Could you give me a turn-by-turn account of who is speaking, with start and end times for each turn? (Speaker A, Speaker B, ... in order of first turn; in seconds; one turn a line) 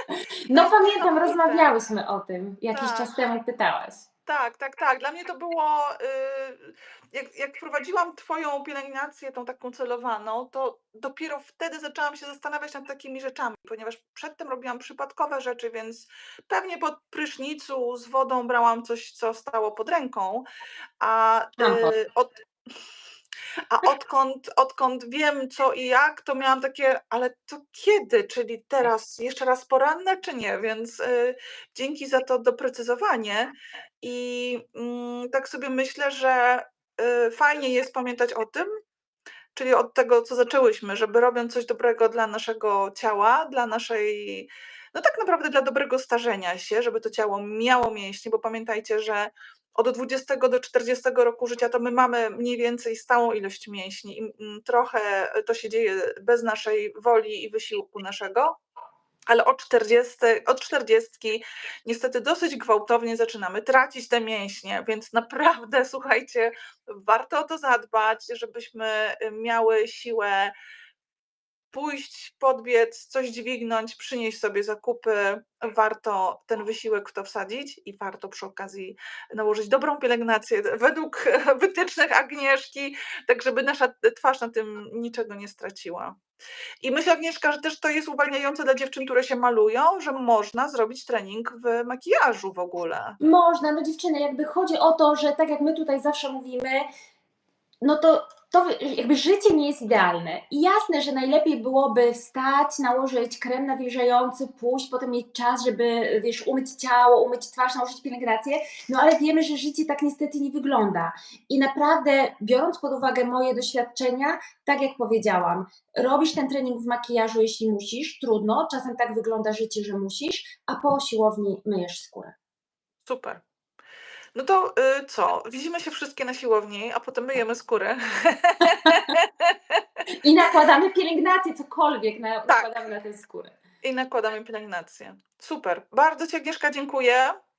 Speaker A: 0.5-4.0
Speaker B: 0.5-1.7
Speaker B: 2.7-3.1
Speaker B: 4.2-20.4
Speaker B: 21.0-22.3
Speaker A: 21.6-21.9
Speaker B: 23.7-38.7
Speaker B: 39.5-58.5
Speaker B: 59.3-70.5
Speaker B: 71.7-86.2
Speaker B: 86.8-93.2
Speaker A: 93.2-96.8
Speaker A: 97.8-122.3
Speaker B: 123.0-123.4
Speaker B: 124.3-129.8
Speaker A: 130.2-133.5
Speaker B: 133.8-137.3